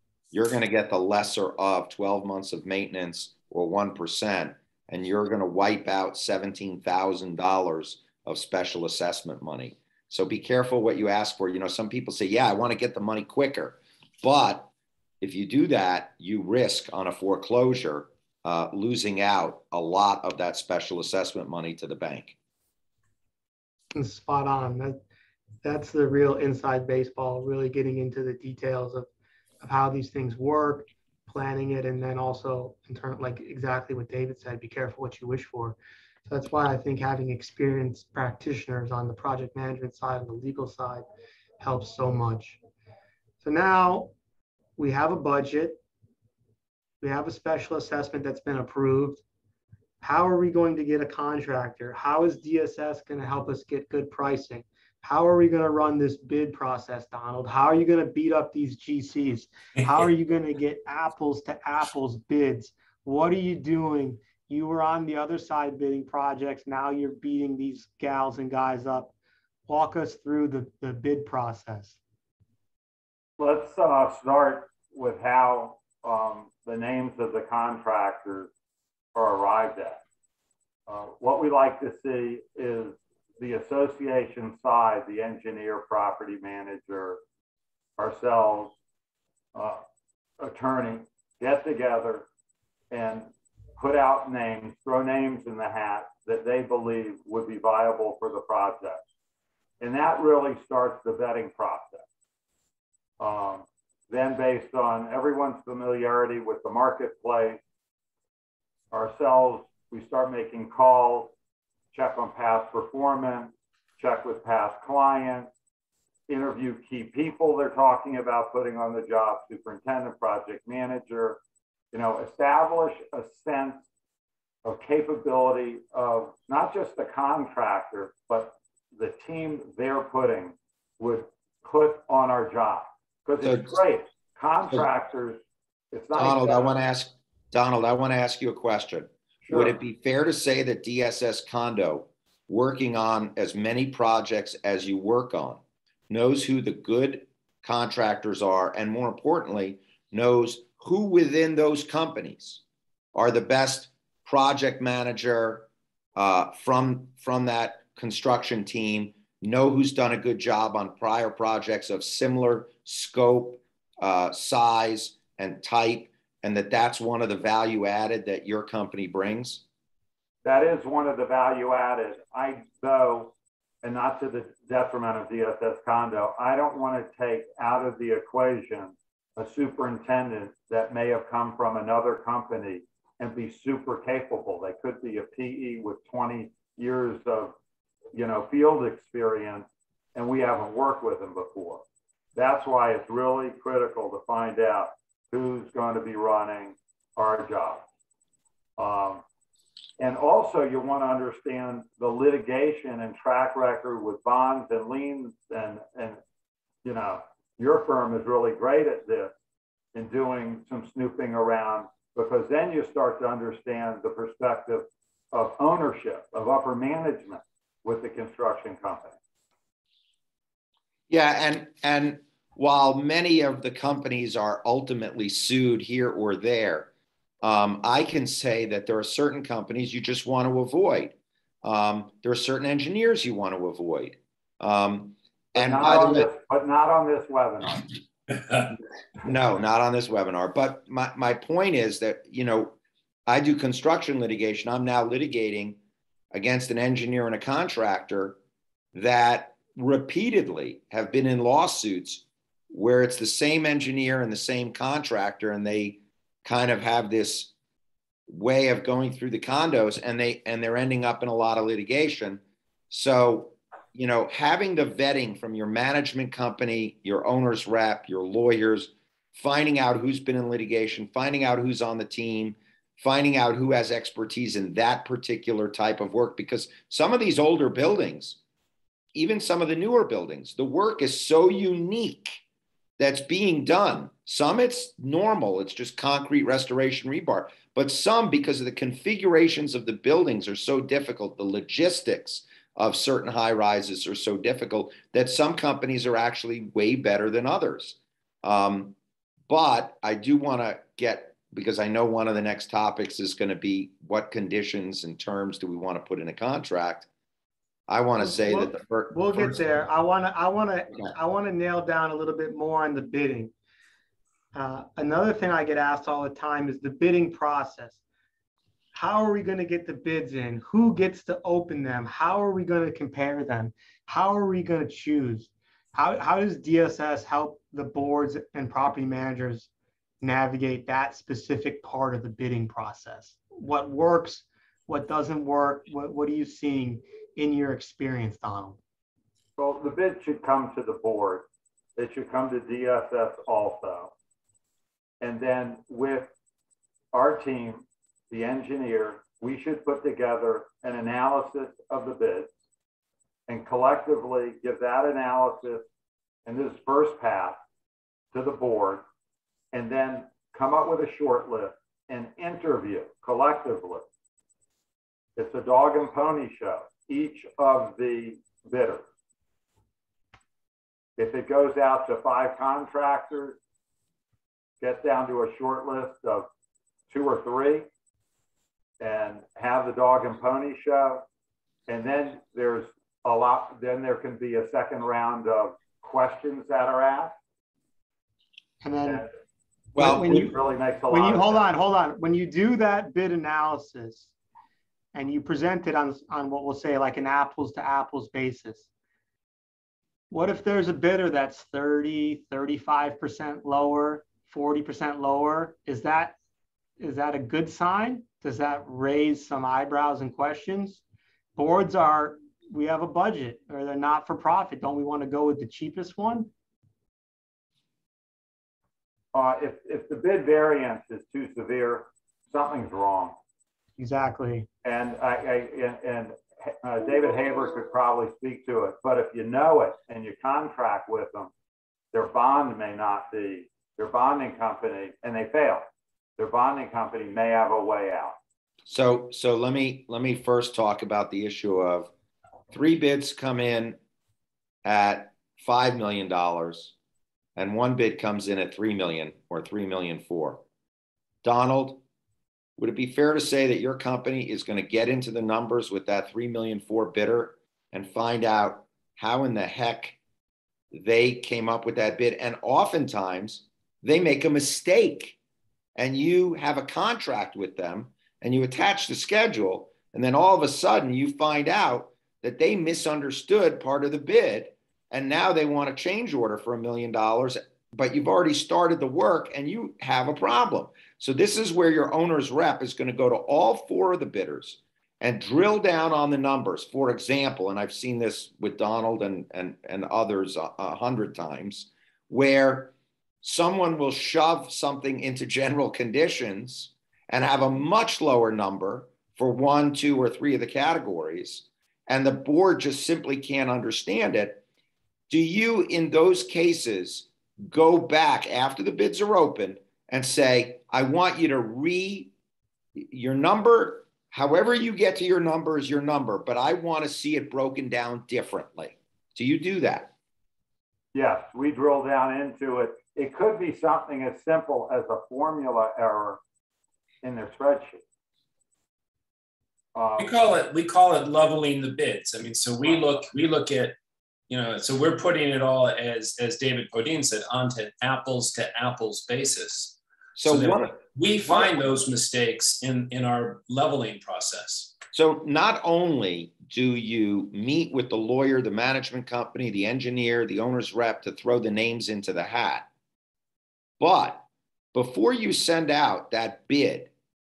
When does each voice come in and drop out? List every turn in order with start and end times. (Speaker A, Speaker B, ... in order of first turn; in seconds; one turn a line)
Speaker A: 0.3-14.7
Speaker A: 15.2-22.3
Speaker B: 23.9-25.0
Speaker B: 25.6-29.1
Speaker B: 29.6-41.0
Speaker B: 41.6-42.6
Speaker B: 43.4-44.1
Speaker B: 44.8-45.8
Speaker B: 47.0-49.2
Speaker B: 50.0-69.1
Speaker B: 69.7-72.0
Speaker C: 73.4-78.5
Speaker C: 79.1-80.0
Speaker C: 80.9-87.2
Speaker C: 88.0-88.7
Speaker C: 89.5-89.8
Speaker C: 90.4-92.2
Speaker C: 92.9-99.0
Speaker C: 99.8-102.0
Speaker C: 103.2-107.6
Speaker C: 108.9-111.3
Speaker C: 111.9-115.5
Speaker C: 116.3-121.4
Speaker C: 121.9-123.8
Speaker C: 124.6-135.4
Speaker A: 133.4-133.8
Speaker C: 135.9-136.7
Speaker A: 136.1-152.6
Speaker C: 139.4-139.7
Speaker A: 153.1-169.6
Speaker C: 170.4-187.5
Speaker C: 188.1-191.8
Speaker C: 192.3-197.8
Speaker C: 198.8-199.2
Speaker C: 200.0-206.2
Speaker C: 206.8-209.3
Speaker C: 209.9-219.2
Speaker A: 221.1-226.9
Speaker A: 227.4-236.3
Speaker C: 235.6-237.9
Speaker A: 239.2-242.7
Speaker A: 243.3-245.8
Speaker A: 246.3-248.4
Speaker A: 248.9-257.5
Speaker A: 258.3-278.4
Speaker A: 279.1-282.4
Speaker A: 283.0-298.9
Speaker A: 299.5-307.1
Speaker A: 307.9-309.6
Speaker B: 308.2-313.5
Speaker B: 314.5-318.0
Speaker B: 318.9-329.7
Speaker B: 330.2-338.8
Speaker C: 339.6-341.4
Speaker C: 342.0-344.1
Speaker C: 345.2-346.3
Speaker C: 347.1-352.5
Speaker C: 353.5-355.9
Speaker C: 356.4-357.6
Speaker C: 358.3-359.0
Speaker C: 359.7-364.1
Speaker C: 365.4-369.1
Speaker C: 371.2-373.6
Speaker C: 374.8-376.5
Speaker C: 377.1-377.9
Speaker C: 379.0-381.2
Speaker C: 381.9-387.4
Speaker B: 388.8-389.2
Speaker A: 389.9-390.3
Speaker B: 389.9-390.5
Speaker C: 390.0-391.6
Speaker B: 391.1-394.3
Speaker B: 395.1-398.9
Speaker B: 400.3-406.3
Speaker B: 407.0-411.0
Speaker B: 411.6-416.5
Speaker C: 419.3-423.4
Speaker B: 424.0-424.7
Speaker C: 424.8-431.5
Speaker C: 432.1-435.8
Speaker C: 436.4-438.4
Speaker A: 438.9-442.1
Speaker A: 442.7-444.0
Speaker A: 444.8-446.9
Speaker A: 447.6-450.6
Speaker A: 451.4-452.0
Speaker A: 452.8-460.2
Speaker A: 460.9-465.4
Speaker A: 465.9-492.9
Speaker A: 493.4-504.6
Speaker A: 505.3-512.3
Speaker A: 513.0-520.1
Speaker C: 521.1-526.4
Speaker C: 527.2-528.0
Speaker C: 529.9-530.3
Speaker D: 530.2-534.0
Speaker D: 534.5-545.0
Speaker A: 540.4-541.9
Speaker A: 545.1-552.9
Speaker A: 554.0-557.1